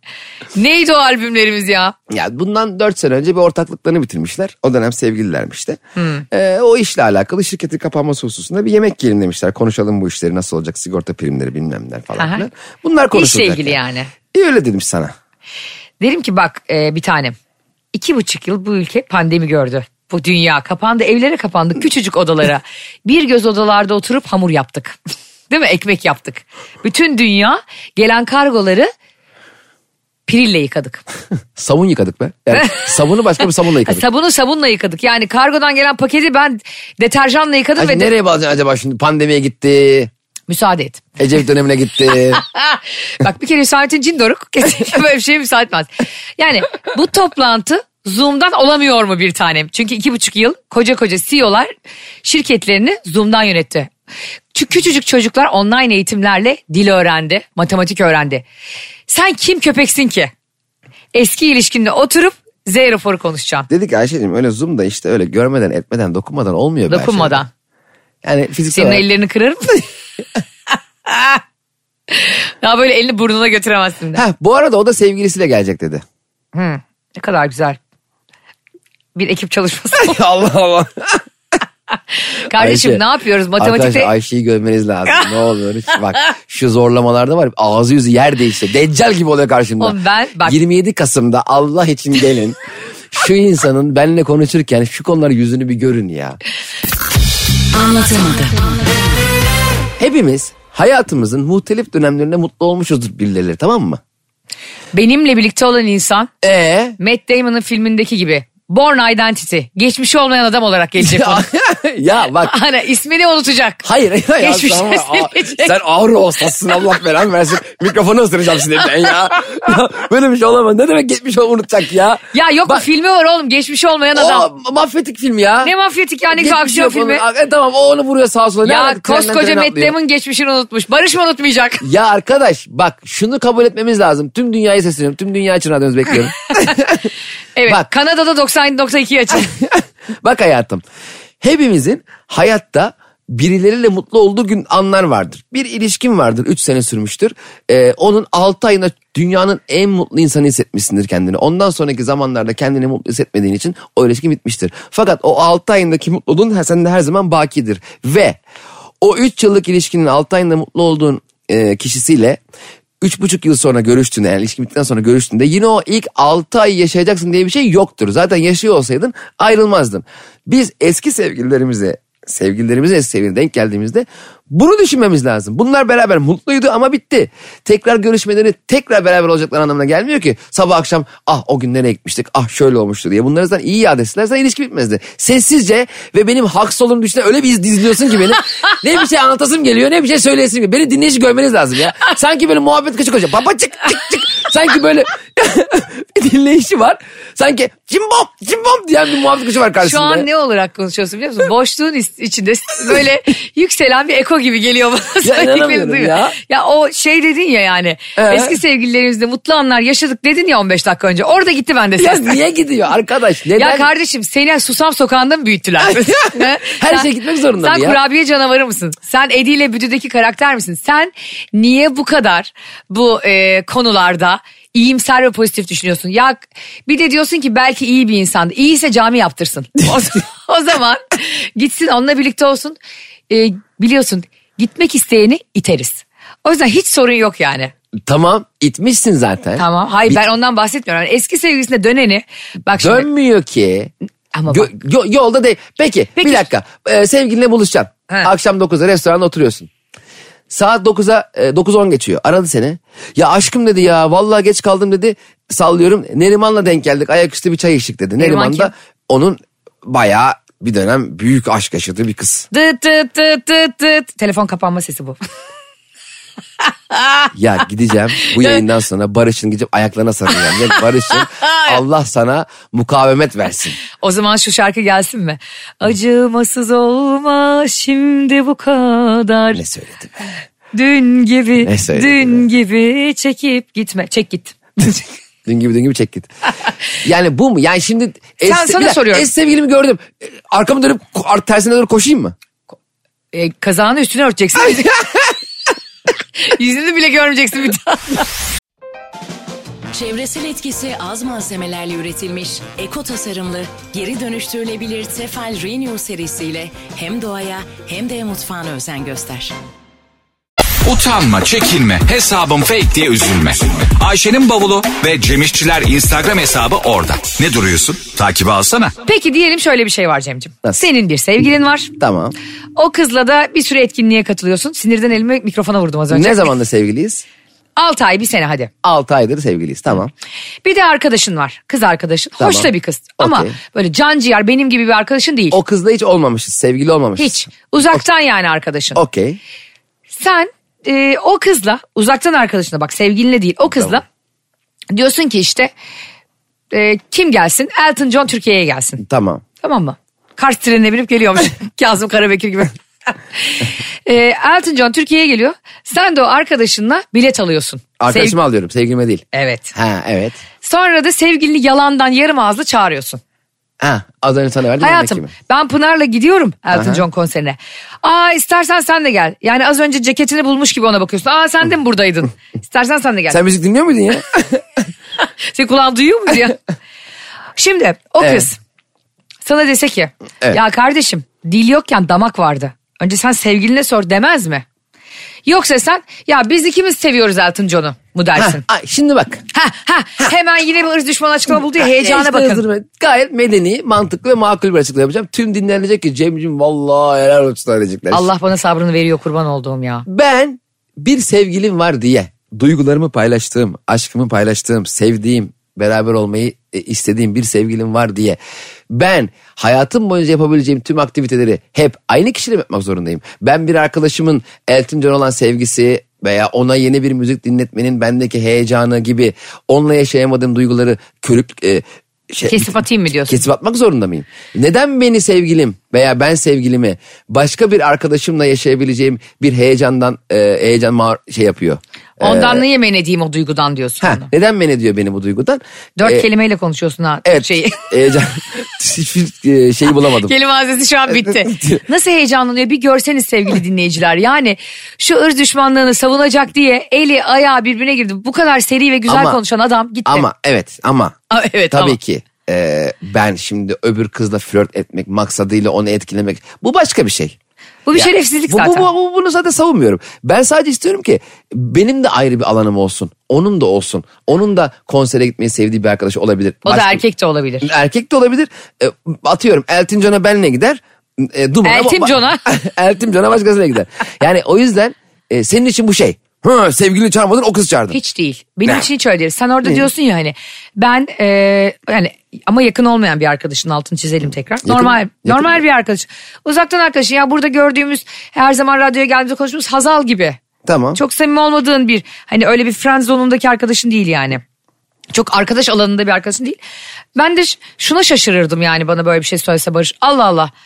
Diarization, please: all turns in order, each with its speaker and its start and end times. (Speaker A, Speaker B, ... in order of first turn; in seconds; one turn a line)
Speaker A: 0.6-1.9
Speaker B: 2.1-5.8
Speaker A: 6.0-6.2
Speaker B: 6.3-15.1
Speaker A: 12.2-12.5
Speaker A: 13.1-14.1
Speaker A: 16.0-17.4
Speaker A: 17.9-25.0
Speaker A: 25.5-28.9
Speaker A: 30.3-31.0
Speaker B: 31.6-34.0
Speaker A: 32.5-32.9
Speaker A: 33.9-38.1
Speaker B: 37.8-40.1
Speaker A: 40.5-41.0
Speaker B: 41.2-42.4
Speaker A: 42.3-51.7
Speaker A: 52.2-53.9
Speaker A: 54.5-58.5
Speaker A: 59.1-60.3
Speaker A: 61.1-63.7
Speaker B: 63.7-67.4
Speaker A: 66.9-67.5
Speaker B: 68.2-69.1
Speaker A: 68.7-69.8
Speaker A: 71.1-71.4
Speaker A: 72.1-74.2
Speaker B: 74.1-76.0
Speaker A: 76.5-77.8
Speaker A: 79.2-80.2
Speaker B: 80.0-81.2
Speaker A: 82.3-84.1
Speaker B: 82.5-83.0
Speaker B: 83.6-92.6
Speaker A: 89.8-90.6
Speaker B: 93.1-96.4
Speaker C: 97.7-99.3
Speaker B: 100.0-104.0
Speaker A: 104.9-106.3
Speaker B: 106.4-107.0
Speaker A: 107.0-111.5
Speaker B: 111.0-112.5
Speaker A: 112.4-113.8
Speaker B: 113.8-122.8
Speaker A: 114.4-115.8
Speaker A: 122.3-124.5
Speaker B: 124.1-125.7
Speaker A: 125.6-127.2
Speaker B: 126.3-130.0
Speaker A: 128.6-131.8
Speaker B: 131.8-137.1
Speaker A: 137.6-139.5
Speaker B: 139.4-140.8
Speaker B: 141.4-158.4
Speaker B: 159.0-162.4
Speaker B: 163.0-200.3
Speaker A: 199.8-212.4
Speaker B: 205.2-206.4
Speaker B: 208.2-208.6
Speaker B: 212.0-213.9
Speaker A: 213.6-232.8
Speaker B: 215.8-218.0
Speaker A: 233.3-237.7
Speaker B: 238.1-240.2
Speaker A: 239.6-243.1
Speaker B: 242.8-243.9
Speaker A: 244.3-244.7
Speaker B: 244.5-249.7
Speaker A: 246.2-246.4
Speaker B: 250.5-262.5
Speaker A: 258.2-258.7
Speaker A: 262.5-265.2
Speaker A: 266.9-267.3
Speaker B: 267.3-273.8
Speaker A: 271.4-271.8
Speaker A: 274.0-279.6
Speaker B: 279.5-280.2
Speaker A: 280.7-285.0
Speaker B: 281.6-282.4
Speaker B: 285.5-286.3
Speaker B: 287.0-292.4
Speaker A: 288.4-289.3
Speaker A: 293.3-295.1
Speaker A: 296.4-298.3
Speaker C: 299.9-309.6
Speaker D: 310.9-318.9
Speaker A: 319.1-321.9
Speaker B: 322.0-322.4
Speaker A: 322.8-326.5
Speaker B: 326.1-327.2
Speaker A: 327.8-328.7
Speaker B: 328.8-330.1
Speaker A: 330.6-335.6
Speaker B: 332.4-333.6
Speaker B: 335.5-338.0
Speaker A: 337.2-339.0
Speaker B: 338.9-339.4
Speaker A: 340.1-344.0
Speaker B: 343.7-344.0
Speaker A: 344.9-345.7
Speaker A: 346.7-349.0
Speaker B: 349.0-349.4
Speaker A: 349.6-352.8
Speaker A: 353.4-358.4
Speaker B: 358.0-360.4
Speaker A: 359.3-359.7
Speaker A: 360.6-363.2
Speaker B: 363.8-365.3
Speaker A: 364.8-373.4
Speaker B: 366.7-367.0
Speaker B: 373.3-374.8
Speaker A: 375.5-376.6
Speaker A: 377.6-378.6
Speaker B: 378.2-378.5
Speaker A: 379.4-384.6
Speaker A: 385.5-388.6
Speaker B: 388.4-389.4
Speaker A: 389.5-392.6
Speaker B: 391.7-398.3
Speaker A: 398.1-400.1
Speaker B: 400.1-408.4
Speaker B: 408.9-432.7
Speaker A: 422.5-423.4
Speaker A: 432.2-434.3
Speaker B: 434.0-436.3
Speaker A: 436.0-437.9
Speaker B: 437.2-440.3
Speaker A: 440.1-450.3
Speaker B: 441.1-441.8
Speaker B: 449.1-449.4
Speaker B: 450.1-451.2
Speaker A: 451.3-452.0
Speaker B: 451.7-457.4
Speaker A: 457.9-458.9
Speaker B: 457.9-467.0
Speaker A: 466.7-467.7
Speaker B: 467.6-478.0
Speaker A: 471.6-472.4
Speaker A: 477.9-490.4
Speaker B: 484.6-485.6
Speaker B: 490.6-491.0
Speaker A: 490.9-494.4
Speaker A: 495.1-496.6
Speaker A: 497.1-500.5